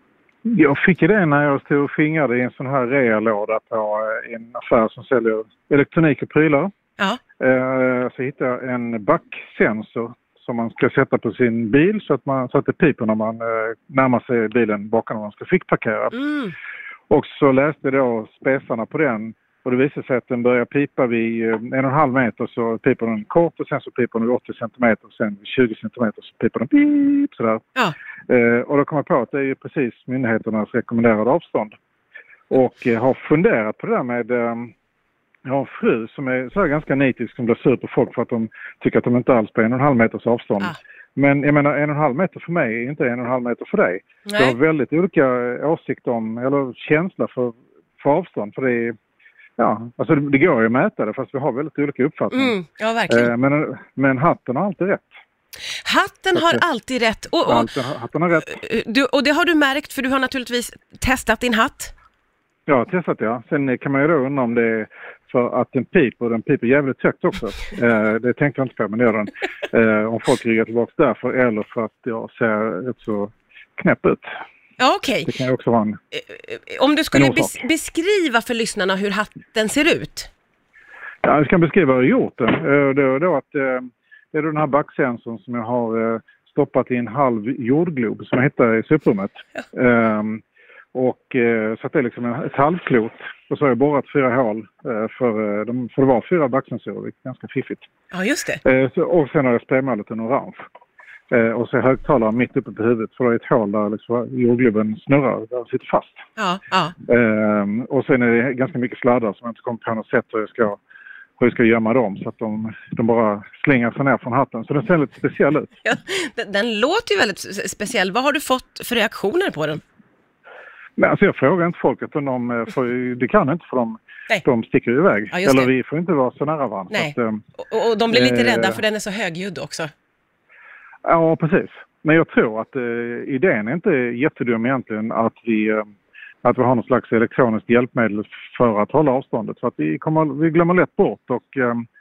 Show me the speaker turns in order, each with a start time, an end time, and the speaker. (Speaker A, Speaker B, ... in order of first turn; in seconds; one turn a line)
Speaker A: 0.5-6.7
Speaker A: 7.4-16.2
Speaker B: 16.1-16.5
Speaker A: 17.1-27.7
Speaker A: 28.3-31.8
Speaker A: 32.5-34.7
Speaker A: 35.5-49.0
Speaker B: 44.3-44.6
Speaker A: 49.6-52.6
Speaker B: 52.3-53.3
Speaker A: 53.1-55.1
Speaker B: 55.9-57.7
Speaker A: 56.3-56.6
Speaker A: 57.4-58.6
Speaker B: 58.4-61.9
Speaker A: 62.7-74.3
Speaker B: 74.8-75.3
Speaker A: 75.3-76.0
Speaker B: 76.1-80.3
Speaker A: 77.1-77.6
Speaker A: 81.2-90.4
Speaker A: 90.9-97.9
Speaker B: 98.1-98.6
Speaker A: 98.6-100.6
Speaker A: 101.3-106.2
Speaker B: 106.4-107.0
Speaker A: 107.1-110.8
Speaker A: 111.4-115.7
Speaker B: 115.8-119.8
Speaker A: 121.0-127.4
Speaker B: 125.3-125.7
Speaker B: 126.9-129.9
Speaker A: 128.1-128.8
Speaker A: 131.1-135.9
Speaker A: 136.4-141.8